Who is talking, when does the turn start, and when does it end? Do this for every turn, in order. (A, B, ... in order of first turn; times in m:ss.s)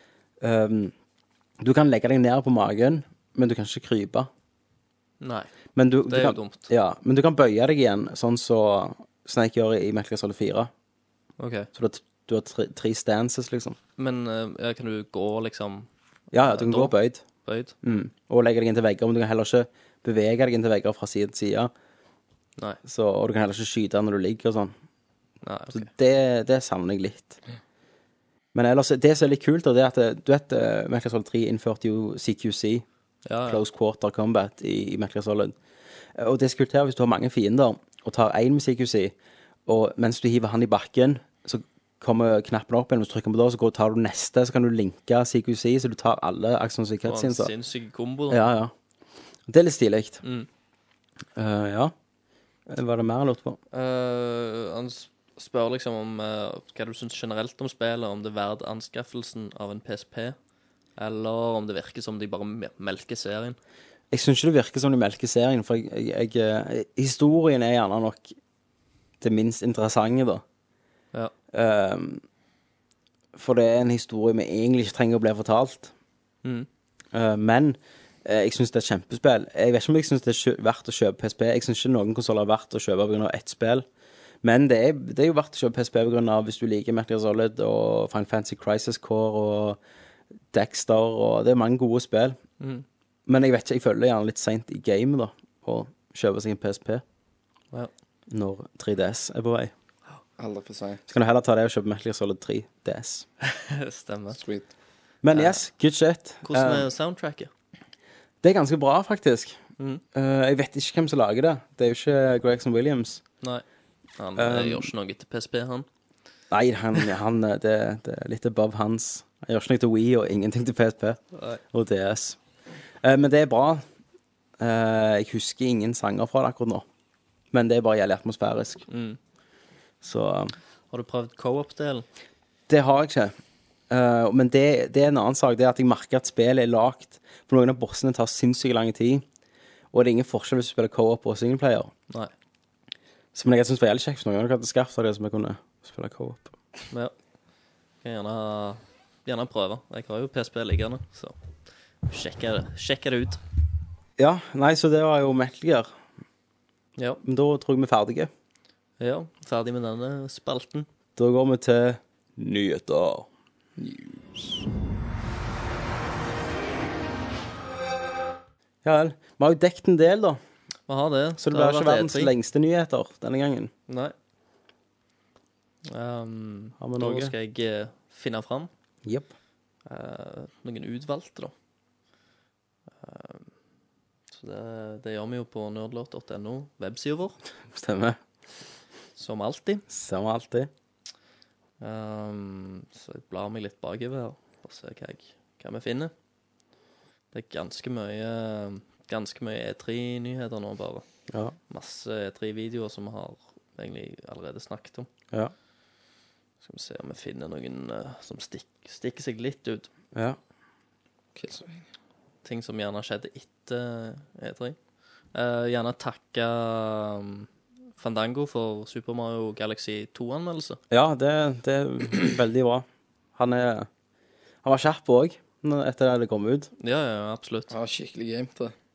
0:00.4-0:00.9 A
0:01.6-0:04.3 A
0:05.2-0:05.5 B
0:05.8-0:10.7 A
0:06.1-0:06.7 B
0:11.4-0:11.7 B
0:11.7-0:13.8 A
0:14.0-0:17.8 B
0:16.3-0:17.2 A
0:17.8-0:21.7 A
0:22.8-0:24.7 A
0:25.4-0:25.9 B
0:25.7-0:27.4 A
0:28.5-0:32.8 A
0:33.2-0:33.6 B
0:33.4-0:35.5 A
0:36.2-0:39.1 A
0:39.7-0:47.5 A
0:47.0-0:48.4 B
0:48.3-0:48.7 A
0:49.5-0:50.2 A
0:51.4-0:51.9 A
0:52.7-0:53.6 A
0:53.7-1:00.4 B
1:01.0-1:03.6 B
1:04.1-1:08.3 A
1:09.2-1:10.4 A
1:11.5-1:12.2 A
1:13.3-1:15.9 A
1:17.1-1:23.8 A
1:24.4-1:29.8 A
1:30.5-1:32.4 A
1:32.6-1:32.8 B
1:33.3-1:37.0 A
1:38.3-1:39.7 A
1:40.4-1:41.0 C
1:41.1-1:43.2 A
1:43.4-1:44.4 B
1:44.3-1:44.7 C
1:45.2-1:46.9 A
1:45.3-1:45.6 B
1:46.4-1:47.5 B
1:48.4-1:49.6 A
1:50.1-1:53.2 A
1:54.2-1:55.8 B
1:54.4-1:54.9 A
1:56.5-2:01.2 A
2:01.3-2:01.6 B
2:01.7-2:02.4 A
2:03.0-2:03.8 A
2:04.6-2:06.8 A
2:07.5-2:08.8 A
2:08.9-2:09.2 B
2:10.0-2:10.5 A
2:10.9-2:12.0 B
2:12.7-2:13.3 A
2:13.9-2:19.2 A
2:19.9-2:21.9 A
2:23.3-2:26.5 A
2:28.0-2:31.4 B
2:32.1-2:33.4 B
2:34.2-2:35.9 A
2:37.2-2:38.3 A
2:39.0-2:40.9 B
2:41.2-2:43.3 A
2:43.8-2:44.2 C
2:48.8-2:50.4 A
2:50.9-2:52.3 B
2:51.4-2:53.7 A
2:53.9-2:54.1 B
2:55.9-2:58.7 B
2:56.8-2:57.3 A
2:59.0-2:59.3 A
2:59.8-3:01.5 B
3:03.0-3:03.5 B
3:04.3-3:07.4 B
3:07.7-3:08.2 A
3:09.2-3:09.8 B
3:09.9-3:10.7 A
3:11.8-3:16.1 B
3:17.3-3:21.0 B
3:21.7-3:25.1 B
3:26.6-3:29.9 B
3:31.3-3:31.8 C
3:32.4-3:34.8 B
3:35.3-3:40.8 B
3:40.9-3:42.8 A
3:43.4-3:43.9 A
3:44.6-3:46.7 A
3:46.8-3:47.7 B
3:47.7-3:48.7 C